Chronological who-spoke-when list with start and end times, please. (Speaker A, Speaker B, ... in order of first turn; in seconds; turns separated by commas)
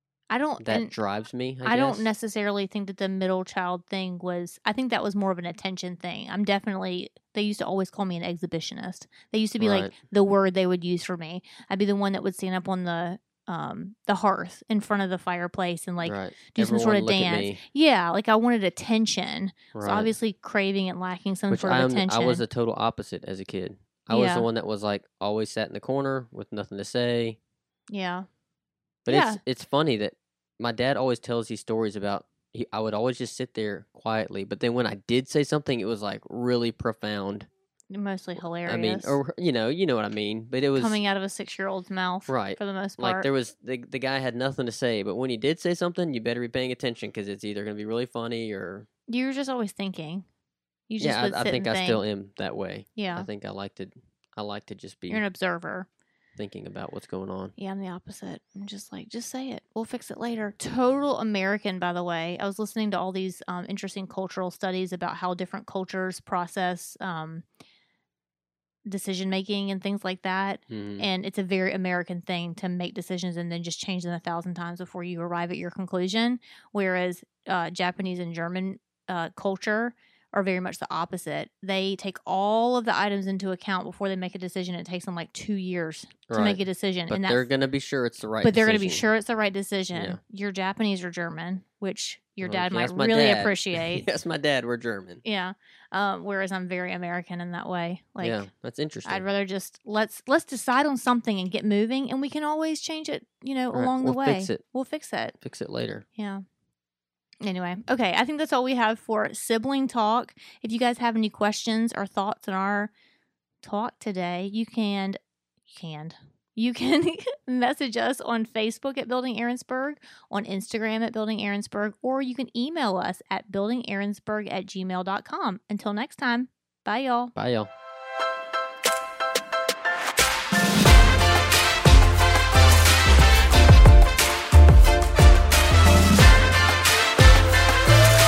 Speaker A: 0.3-0.9, Speaker B: 0.6-2.1, Speaker A: 1.6-22.4, Speaker B: 9.6-9.9, Speaker B: 16.0-17.6, Speaker B: 19.7-20.1, Speaker B: 21.5-27.4, Speaker A: 24.1-24.5, Speaker A: 27.9-28.3, Speaker B: 29.1-37.5, Speaker A: 29.1-29.4, Speaker A: 37.9-39.2, Speaker B: 38.7-41.0, Speaker A: 40.8-43.3, Speaker B: 42.3-48.9, Speaker A: 49.1-50.3, Speaker A: 50.9-52.0, Speaker B: 51.0-55.2, Speaker A: 53.0-53.3, Speaker A: 55.1-55.9, Speaker B: 56.4-57.5, Speaker A: 57.6-67.4, Speaker A: 68.9-87.5, Speaker B: 70.7-71.1, Speaker B: 86.3-89.0, Speaker A: 88.4-94.0, Speaker B: 89.9-90.2, Speaker B: 92.4-95.2, Speaker A: 95.2-98.5, Speaker B: 98.2-99.2, Speaker A: 99.0-105.3, Speaker B: 103.7-104.6, Speaker B: 105.4-106.0, Speaker A: 106.2-106.4, Speaker A: 107.4-112.9, Speaker A: 113.6-127.3, Speaker B: 127.3-127.7